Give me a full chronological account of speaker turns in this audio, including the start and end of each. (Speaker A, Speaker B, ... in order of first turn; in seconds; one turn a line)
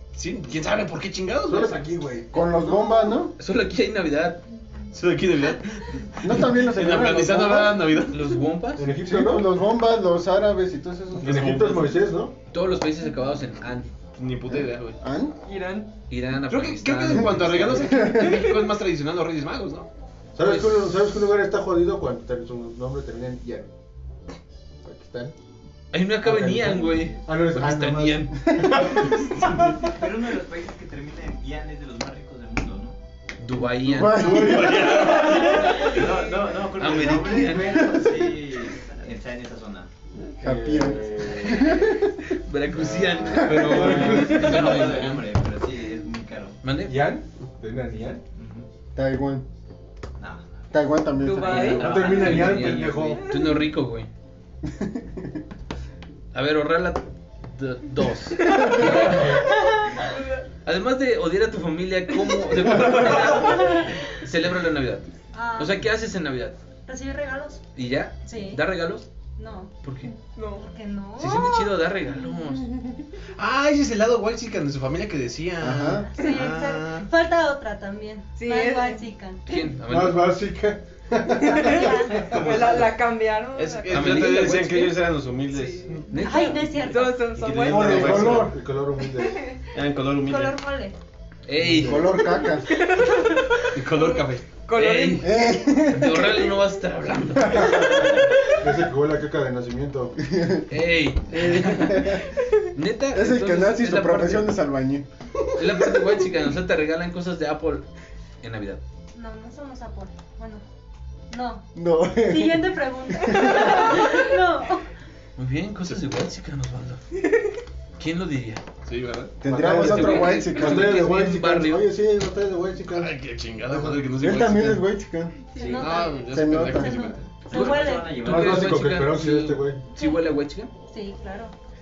Speaker A: 0.1-1.8
Speaker B: 1.4-2.4
Speaker C: 2.3-3.3
Speaker D: 3.4-4.4
Speaker A: 4.9-8.3
Speaker C: 6.2-8.0
Speaker D: 8.1-8.9
Speaker B: 8.8-9.5
Speaker C: 8.8-11.7
Speaker B: 11.2-12.3
Speaker A: 11.2-12.0
Speaker D: 12.5-13.9
Speaker A: 14.2-15.0
Speaker C: 14.5-15.3
Speaker E: 15.4-15.9
Speaker D: 16.1-17.9
Speaker A: 16.5-19.9
Speaker C: 17.6-18.5
Speaker B: 20.3-23.7
Speaker D: 20.4-20.9
Speaker B: 24.8-25.3
Speaker D: 25.9-28.4
Speaker B: 26.2-29.1
Speaker F: 29.8-33.0
Speaker D: 33.4-34.4
Speaker C: 33.8-35.2
Speaker A: 34.1-35.8
Speaker F: 35.1-39.9
Speaker D: 36.8-37.9
Speaker B: 40.3-41.7
Speaker C: 40.4-42.1
Speaker D: 42.4-45.1
Speaker B: 42.7-44.7
Speaker A: 43.6-45.2
Speaker F: 43.8-46.6
Speaker D: 46.6-47.0
Speaker B: 46.8-48.2
Speaker F: 48.3-48.7
Speaker C: 48.9-49.5
Speaker F: 50.2-50.6
Speaker C: 50.7-51.9
Speaker E: 51.2-52.0
Speaker D: 51.5-54.1
Speaker F: 51.5-53.2
Speaker B: 51.6-53.3
Speaker E: 53.3-53.6
Speaker C: 54.6-55.4
Speaker D: 56.3-59.4
Speaker E: 58.5-59.2
Speaker G: 59.4-59.9
Speaker E: 60.0-60.4
Speaker D: 60.6-66.6
Speaker G: 65.3-65.9
Speaker G: 66.8-67.6
Speaker D: 67.7-69.0
Speaker G: 68.2-68.6
Speaker G: 69.4-69.7
Speaker D: 69.8-70.1
Speaker E: 70.3-70.7
Speaker G: 70.6-71.7
Speaker D: 71.2-72.7
Speaker A: 73.4-77.1
Speaker C: 75.6-76.1
Speaker G: 76.0-79.7
Speaker E: 78.3-79.0
Speaker D: 79.5-80.3
Speaker B: 79.8-82.9
Speaker G: 81.4-82.3
Speaker E: 81.4-84.5
Speaker A: 82.3-82.8
Speaker A: 83.5-86.0
Speaker D: 83.9-85.0
Speaker E: 85.5-85.9
Speaker D: 86.1-86.9
Speaker G: 86.1-87.3
Speaker E: 86.8-88.2
Speaker A: 87.3-88.5
Speaker B: 87.7-89.4
Speaker C: 87.7-88.5
Speaker A: 89.7-90.6
Speaker G: 90.2-91.0
Speaker D: 91.5-92.1
Speaker B: 91.7-92.1
Speaker C: 91.7-92.7
Speaker E: 92.4-95.5
Speaker A: 93.7-94.5
Speaker D: 94.7-98.2
Speaker C: 95.2-96.5
Speaker B: 98.6-100.2
Speaker C: 100.3-100.7
Speaker D: 100.7-102.2
Speaker C: 101.4-102.2
Speaker D: 102.7-104.6
Speaker C: 103.1-105.1
Speaker D: 105.5-107.8
Speaker D: 108.4-108.8
Speaker G: 109.1-110.6
Speaker G: 111.3-114.8
Speaker C: 111.7-113.8
Speaker E: 113.7-114.0
Speaker D: 115.4-117.0
Speaker D: 118.0-118.6
Speaker A: 118.8-119.3
Speaker C: 119.4-121.2
Speaker B: 119.4-123.1
Speaker D: 119.6-121.9
Speaker A: 122.9-124.8
Speaker C: 124.2-125.4
Speaker G: 125.5-128.2
Speaker F: 125.6-125.8
Speaker A: 125.6-127.2
Speaker C: 126.3-127.1
Speaker F: 127.5-128.9
Speaker D: 127.5-130.7
Speaker B: 128.2-129.8
Speaker G: 129.9-130.3
Speaker G: 130.9-131.5